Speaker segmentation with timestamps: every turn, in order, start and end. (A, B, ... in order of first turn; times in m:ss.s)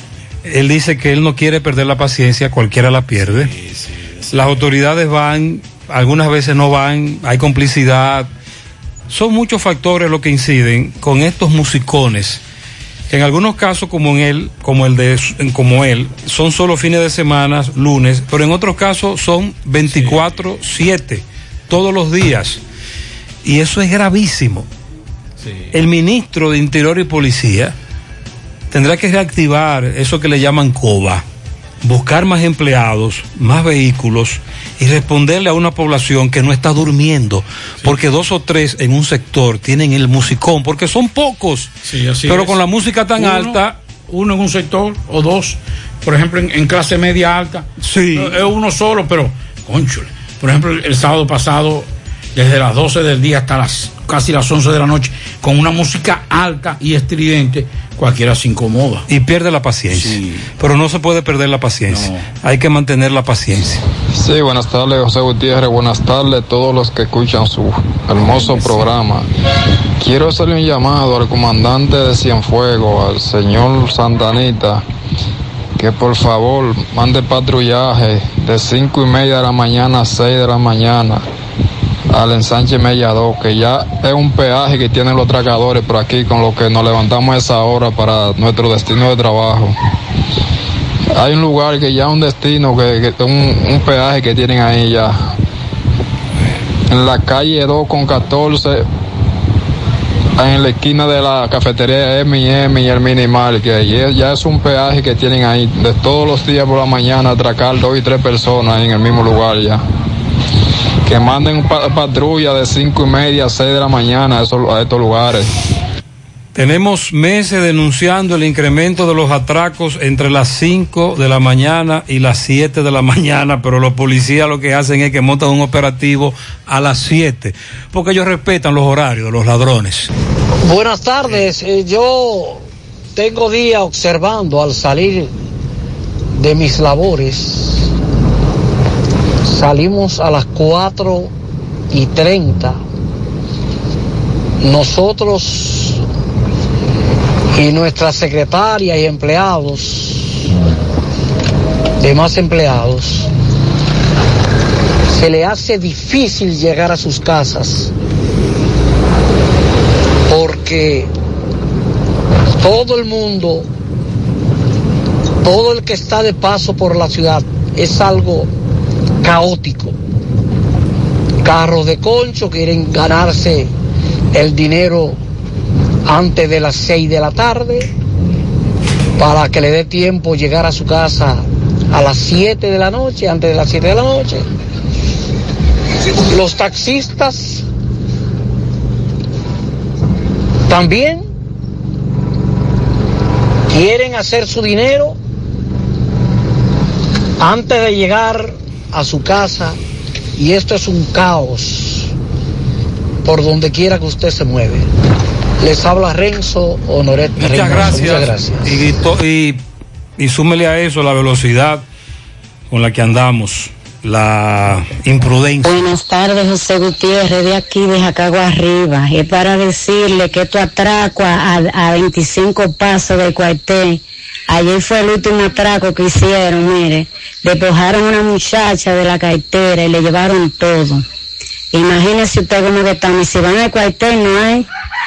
0:00.4-0:03.5 A
0:03.3-0:04.4 B
0:04.3-0:08.3 A
0:09.1-0:12.4 A
0:13.1-0:22.6 A
0:19.9-0:20.2 B
0:23.4-0:24.7 A
0:25.7-0:27.7 A
0:28.7-0:31.2 A
0:31.8-0:41.7 A
0:41.9-0:42.6 B
0:42.2-0:43.7 A
0:43.2-0:59.0 B
0:47.8-0:48.4 A
0:59.1-1:03.8 A
0:59.9-1:00.5 B
1:01.9-1:02.2 B
1:04.1-1:09.3 C
1:10.0-1:14.8 C
1:15.8-1:21.2 C
1:22.1-1:29.8 C
1:31.1-1:35.3 C
1:36.9-1:38.8 C
1:40.4-1:49.8 C
1:51.0-1:55.5 C
1:56.5-2:10.1 A
2:10.6-2:15.3 D
2:16.4-2:17.9 D
2:19.4-2:21.3 D
2:21.9-2:22.8 D
2:24.6-2:26.0 D
2:27.5-2:30.5 D
2:32.0-2:33.3 D
2:35.1-2:37.9 D
2:40.3-2:41.1 D
2:42.6-2:43.7 D
2:45.4-2:48.5 D
2:49.2-2:50.0 D
2:51.4-2:53.7 D
2:54.3-2:55.2 D
2:56.0-2:57.9 D
2:59.2-3:04.5 D
3:06.3-3:07.6 D
3:10.7-3:11.2 D
3:13.7-3:15.2 D
3:17.4-3:19.8 D
3:20.4-3:22.1 D
3:23.2-3:24.9 D
3:25.6-3:28.8 D
3:27.4-3:29.6 A
3:30.2-3:31.8 A
3:32.7-3:35.8 A
3:35.6-3:51.0 E
3:51.7-3:54.6 E